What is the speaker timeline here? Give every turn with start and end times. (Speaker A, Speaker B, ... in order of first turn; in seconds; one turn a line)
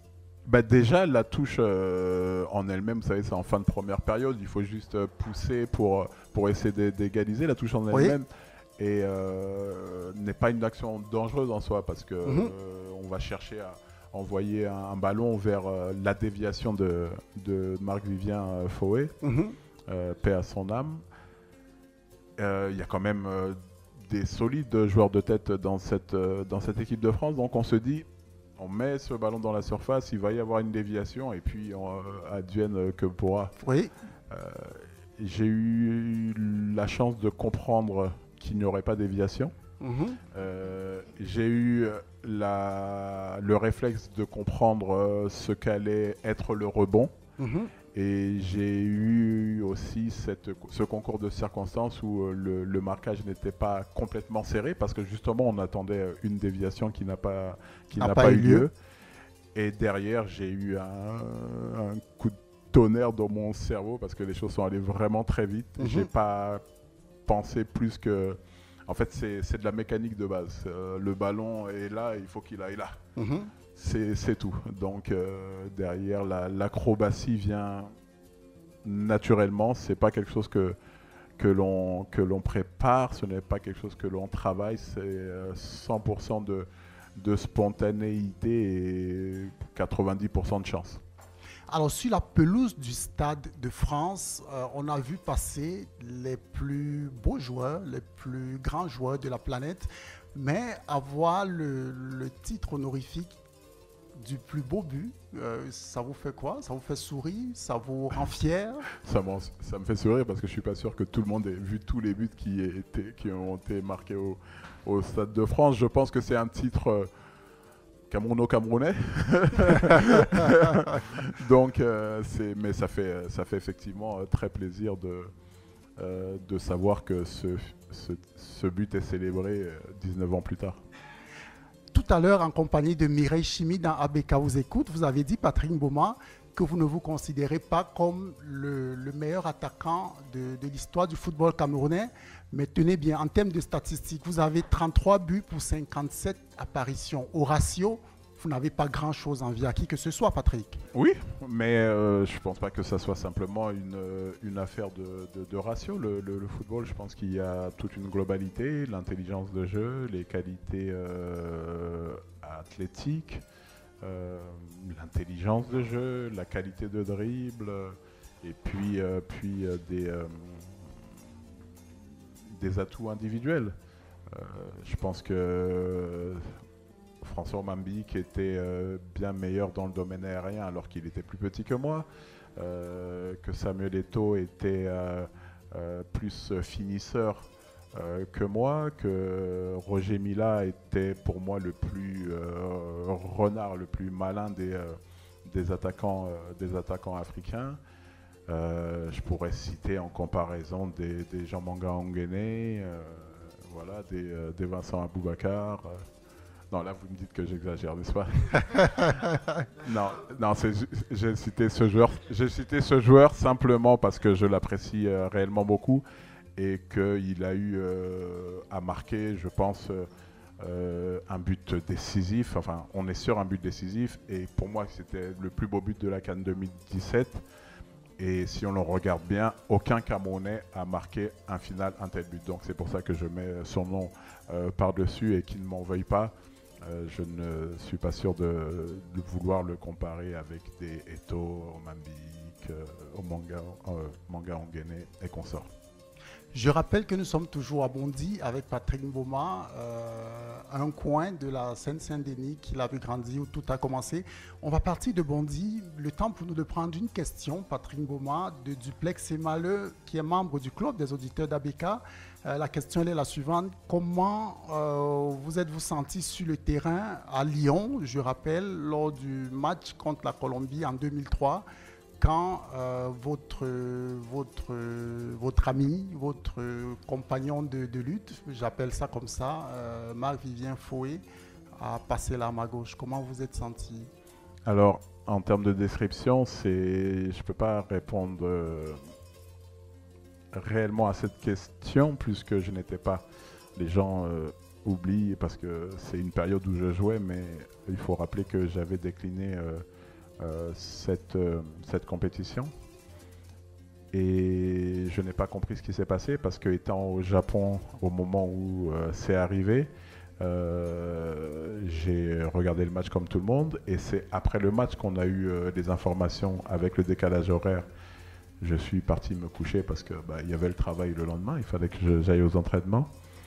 Speaker A: 0.5-19.1
Speaker B: 12.2-12.5
Speaker B: 19.2-19.5
Speaker A: 19.9-21.0
Speaker A: 22.4-28.1
Speaker A: 28.6-33.5
Speaker B: 33.6-33.9
Speaker A: 34.3-39.5
Speaker B: 39.8-40.2
Speaker A: 40.3-47.1
Speaker B: 47.4-47.7
Speaker A: 47.9-58.7
Speaker B: 58.0-58.7
Speaker A: 59.5-66.6
Speaker B: 65.8-66.1
Speaker A: 67.2-73.0
Speaker B: 73.2-73.5
Speaker A: 73.7-77.9
Speaker A: 78.8-80.8
Speaker A: 81.4-91.0
Speaker B: 91.7-103.3
Speaker B: 104.2-108.8
Speaker A: 109.0-117.1
Speaker A: 118.1-125.3
Speaker A: 126.0-130.8
Speaker B: 131.9-150.8
Speaker A: 150.9-163.4
Speaker A: 164.0-171.0
Speaker A: 172.5-173.7
Speaker A: 174.3-176.5
Speaker A: 177.2-197.8
Speaker A: 198.5-206.0
Speaker A: 206.7-209.1
Speaker A: 209.8-216.0
Speaker A: 216.6-220.1
Speaker A: 220.6-227.4
Speaker A: 228.2-245.7
Speaker B: 246.5-271.6
Speaker B: 272.2-281.2
Speaker B: 281.8-284.1
Speaker A: 284.6-289.0
Speaker A: 290.5-293.2
Speaker A: 293.8-299.8
Speaker A: 300.4-302.7
Speaker A: 304.1-317.9
Speaker A: 318.6-323.1